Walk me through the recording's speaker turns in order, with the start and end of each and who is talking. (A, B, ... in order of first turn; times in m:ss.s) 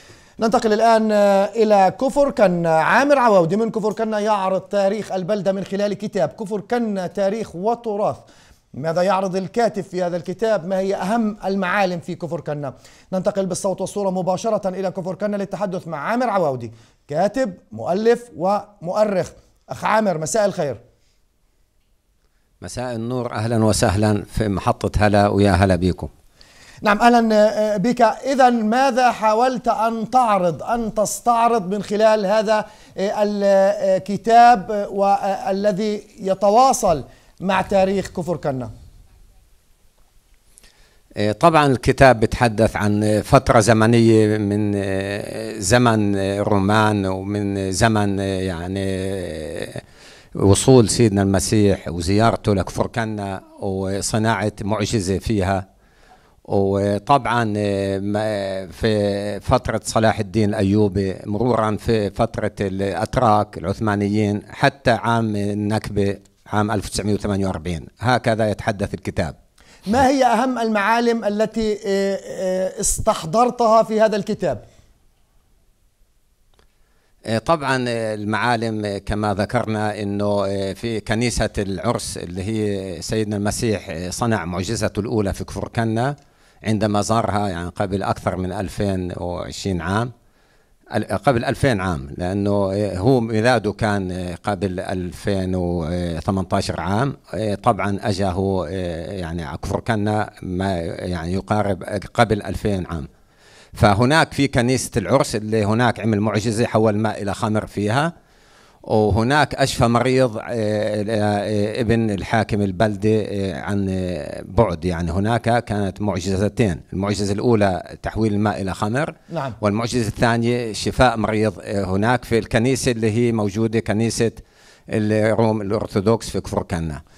0:00.4-0:20.8 A
0:22.6-0:26.1 B
0:26.8-0:38.7 A
0:41.2-0:49.8 B
0:50.4-0:55.6 B
0:56.5-1:09.3 B
1:09.8-1:14.6 A
1:17.3-1:30.1 B
1:30.9-1:43.1 B
1:43.8-1:48.1 B
1:48.9-2:07.0 B
1:59.3-1:59.6 A